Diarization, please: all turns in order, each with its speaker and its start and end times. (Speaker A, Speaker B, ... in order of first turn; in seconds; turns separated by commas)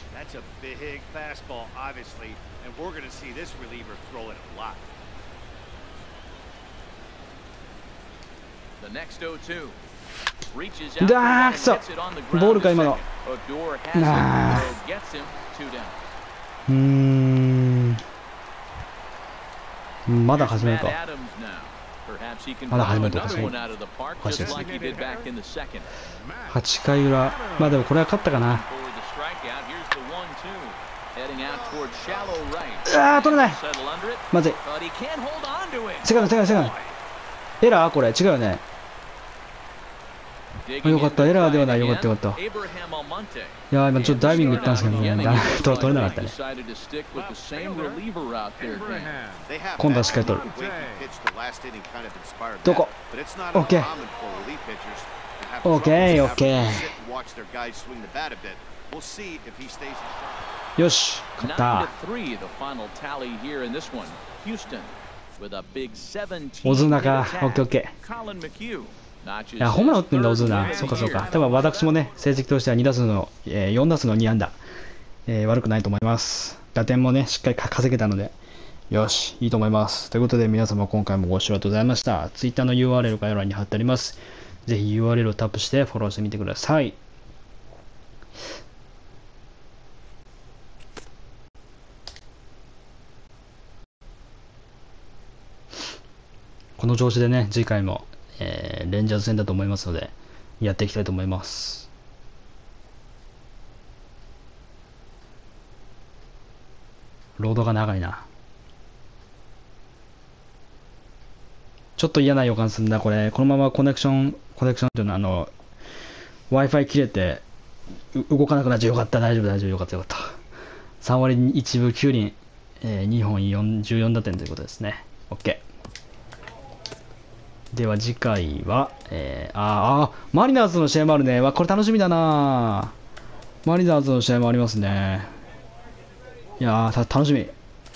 Speaker A: 0.1-4.8, Speaker B: 8.8-9.8, Speaker B: 10.5-15.9, Speaker C: 11.0-13.0, Speaker C: 13.9-14.7, Speaker C: 16.7-18.0, Speaker C: 20.1-21.0, Speaker B: 20.3-25.9, Speaker C: 22.7-23.6, Speaker C: 24.2-24.6, Speaker A: 24.6-25.1, Speaker C: 26.5-28.6, Speaker B: 28.5-36.7, Speaker C: 32.8-33.6, Speaker C: 34.3-34.6, Speaker C: 36.0-36.7, Speaker C: 37.6-38.6, Speaker B: 40.7-49.1, Speaker C: 40.8-42.4, Speaker C: 43.7-46.3, Speaker A: 48.9-60.1, Speaker C: 49.8-50.5, Speaker C: 52.6-52.9, Speaker C: 53.5-54.0, Speaker C: 55.6-57.0, Speaker C: 60.8-61.9, Speaker B: 61.4-71.4, Speaker C: 66.6-67.9, Speaker C: 69.6-74.6, Speaker C: 75.3-78.3, Speaker C: 78.9-87.0, Speaker C: 96.8-101.9, Speaker C: 107.4-108.2, Speaker C: 112.0-115.5, Speaker C: 116.5-117.4, Speaker C: 118.1-120.3, Speaker C: 121.0-125.6, Speaker C: 127.7-132.9, Speaker C: 133.6-135.3, Speaker C: 136.6-137.5